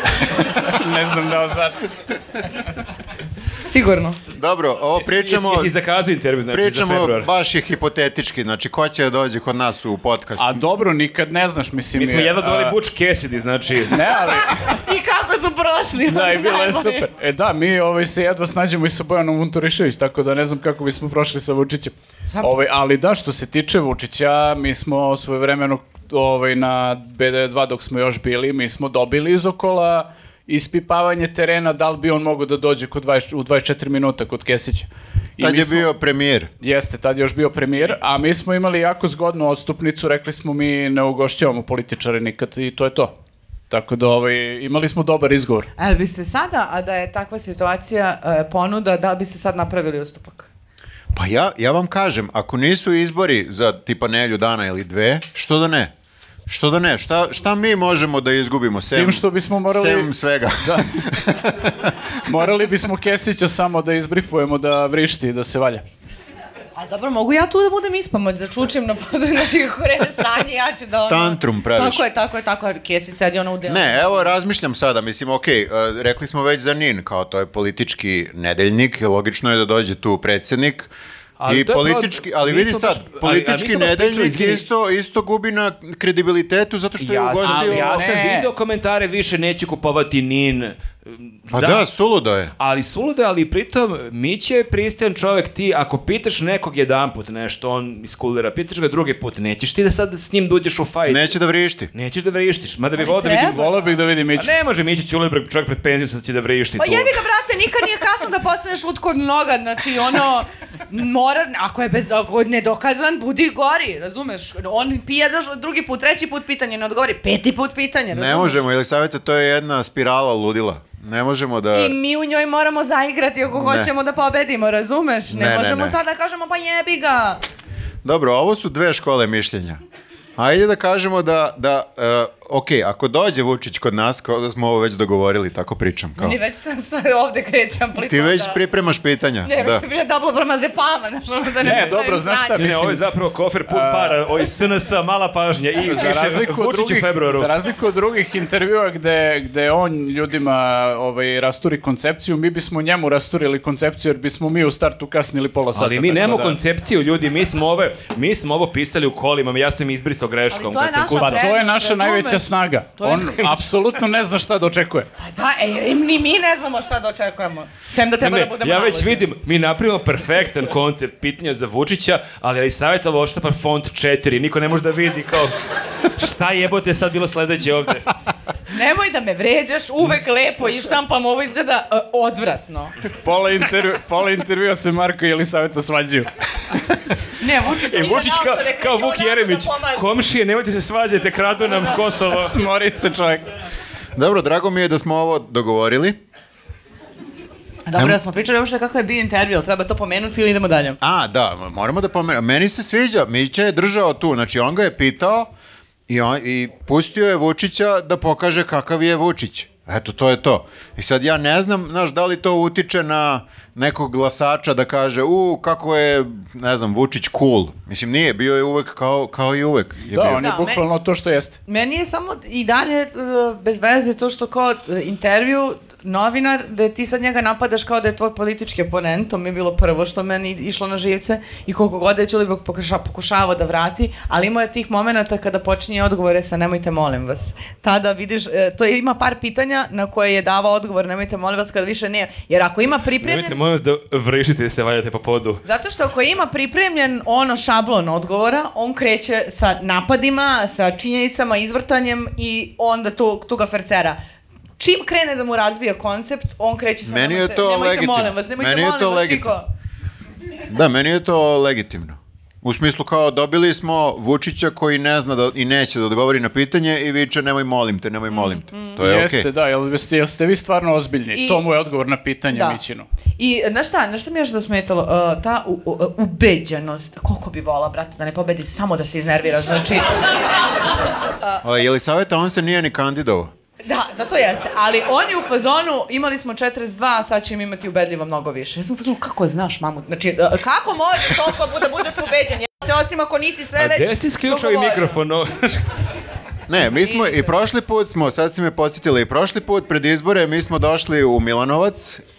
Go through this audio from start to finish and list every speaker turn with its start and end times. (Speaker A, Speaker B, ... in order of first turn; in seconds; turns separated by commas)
Speaker A: 0.6-1.8, Speaker B: 3.6-4.2, Speaker C: 4.3-5.7, Speaker D: 5.0-7.3, Speaker C: 6.5-10.6, Speaker A: 10.4-12.8, Speaker D: 11.9-14.1, Speaker A: 13.9-14.8, Speaker B: 14.5-17.1, Speaker A: 16.1-35.9, Speaker B: 22.3-22.5, Speaker C: 35.4-36.5, Speaker A: 36.6-43.1, Speaker A: 43.7-45.7, Speaker B: 45.8-50.5, Speaker C: 51.1-55.9, Speaker C: 56.5-61.9, Speaker A: 58.9-60.1, Speaker A: 60.6-61.0, Speaker A: 62.2-65.8, Speaker B: 66.8-74.3, Speaker C: 71.1-72.0, Speaker C: 73.7-80.9, Speaker D: 81.4-84.6, Speaker C: 81.5-88.0, Speaker D: 87.0-91.9, Speaker A: 87.4-88.5, Speaker C: 91.5-92.5, Speaker D: 92.6-101.3, Speaker C: 101.1-101.9, Speaker D: 101.9-103.7, Speaker B: 103.0-103.6, Speaker A: 103.4-104.5, Speaker D: 104.3-107.2, Speaker B: 106.8-118.6, Speaker C: 118.1-122.0, Speaker B: 121.7-127.4, Speaker C: 123.5-123.9, Speaker C: 125.3-126.0, Speaker C: 128.0-129.8, Speaker C: 130.4-136.4, Speaker B: 136.2-138.6, Speaker C: 138.0-139.8, Speaker B: 139.4-142.7, Speaker A: 141.6-143.0, Speaker D: 141.6-142.0, Speaker D: 142.5-147.5, Speaker A: 143.7-144.2, Speaker A: 145.8-156.6, Speaker D: 155.8-161.5, Speaker B: 160.5-163.6, Speaker A: 161.2-165.1, Speaker B: 165.2-169.3, Speaker D: 168.2-175.5, Speaker D: 176.1-178.1, Speaker B: 178.7-182.9, Speaker A: 183.2-186.3, Speaker B: 187.4-190.1, Speaker D: 187.7-192.6, Speaker A: 192.3-193.5, Speaker C: 194.2-196.2, Speaker B: 197.9-201.0, Speaker C: 201.0-205.5, Speaker C: 206.1-220.5, Speaker A: 220.1-221.6, Speaker B: 220.4-220.8, Speaker B: 221.7-243.6, Speaker D: 243.2-245.6, Speaker B: 245.7-254.2, Speaker B: 254.8-259.7, Speaker C: 257.0-259.5, Speaker C: 260.7-269.5, Speaker B: 268.3-269.0, Speaker A: 269.0-273.1, Speaker B: 271.3-271.6, Speaker B: 272.5-272.8, Speaker B: 273.4-280.3, Speaker C: 281.6-283.5, Speaker B: 283.8-295.1, Speaker D: 293.8-295.8, Speaker C: 296.7-302.2, Speaker B: 296.8-297.5